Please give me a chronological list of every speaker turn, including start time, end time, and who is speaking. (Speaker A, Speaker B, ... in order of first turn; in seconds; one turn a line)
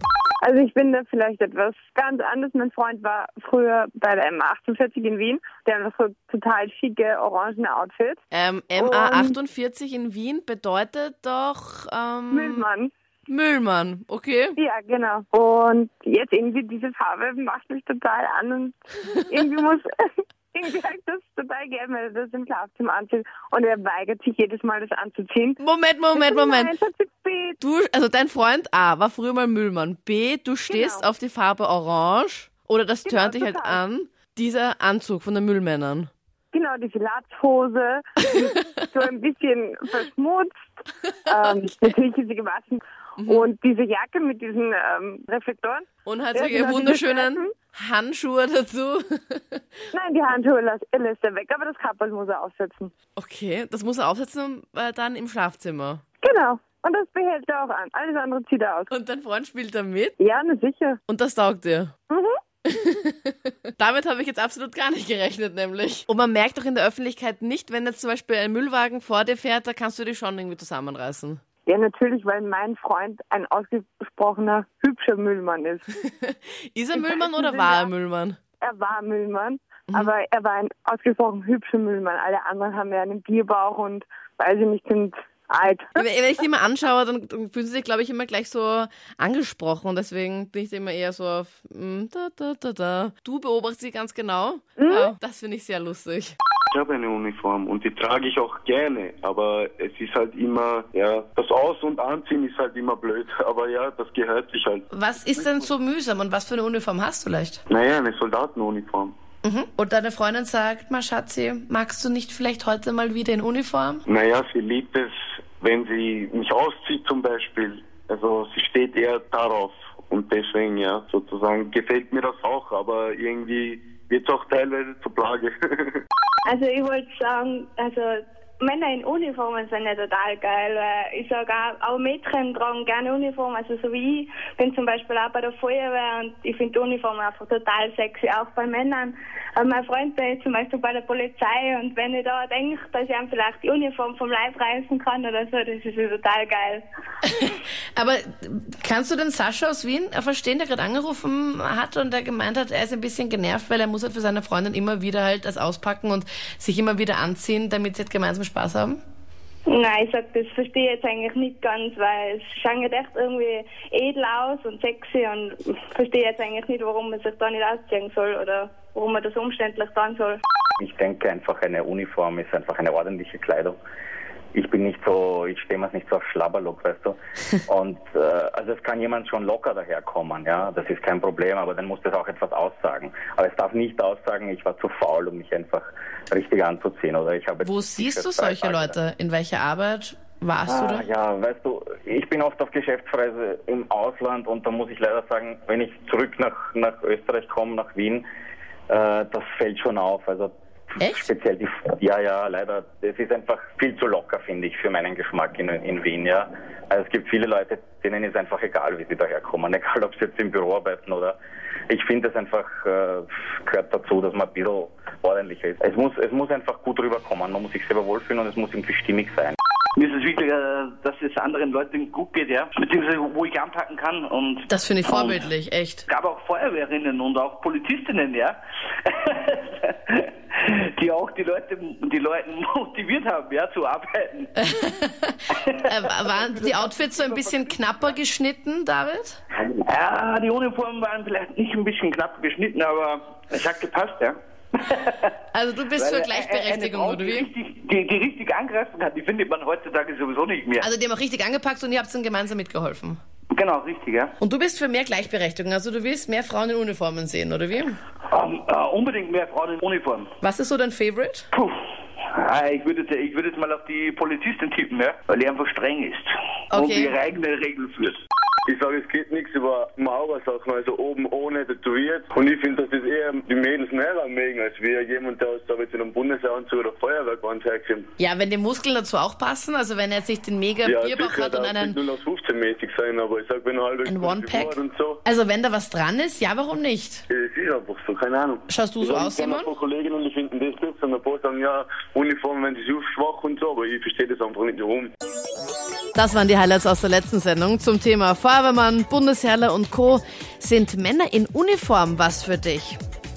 Speaker A: 0.4-8.2
Speaker B: 8.3-12.6
Speaker A: 8.8-9.3
Speaker A: 12.3-12.9
Speaker B: 13.3-14.6
Speaker A: 14.6-19.9
Speaker A: 20.5-25.6
Speaker B: 25.6-26.7
Speaker A: 26.1-27.6
Speaker B: 27.6-36.1
Speaker A: 30.7-31.1
Speaker A: 33.0-33.8
Speaker A: 36.5-47.5
Speaker B: 43.2-43.5
Speaker B: 46.0-49.6
Speaker A: 49.9-52.9
Speaker B: 53.1-56.0
Speaker A: 56.2-58.9
Speaker B: 58.9-60.2
Speaker A: 60.2-61.0
Speaker B: 61.1-61.9
Speaker A: 62.1-62.4
Speaker B: 62.6-71.4
Speaker A: 71.7-75.8
Speaker B: 76.0-78.4
Speaker A: 76.9-77.9
Speaker A: 78.6-86.0
Speaker B: 86.0-96.3
Speaker A: 94.8-95.1
Speaker C: 96.7-104.8
Speaker B: 104.9-107.6
Speaker C: 107.7-109.1
Speaker B: 109.4-114.0
Speaker C: 114.1-126.0
Speaker D: 126.5-146.8
Speaker B: 147.4-159.0
Speaker D: 159.7-170.4
Speaker E: 170.8-173.8
Speaker E: 174.5-189.0
Speaker B: 187.6-191.1
Speaker E: 190.7-198.2
Speaker E: 198.9-211.4
Speaker B: 201.0-201.3
Speaker E: 211.9-219.5
Speaker F: 220.0-224.6
Speaker B: 224.7-226.1
Speaker F: 226.1-228.5
Speaker F: 231.0-234.4
Speaker B: 234.6-239.4
Speaker F: 239.9-244.3
Speaker F: 244.9-245.3
Speaker B: 245.5-247.5
Speaker F: 246.0-250.8
Speaker B: 250.8-253.2
Speaker F: 253.5-254.3
Speaker B: 254.4-258.0
Speaker F: 258.3-260.2
Speaker B: 260.4-261.5
Speaker F: 262.4-266.3
Speaker B: 266.7-267.2
Speaker F: 266.8-268.1
Speaker C: 268.7-278.1
Speaker B: 278.2-282.0
Speaker C: 280.8-285.2
Speaker B: 284.0-287.2
Speaker C: 287.3-295.1
Speaker B: 288.7-289.7
Speaker B: 296.1-303.0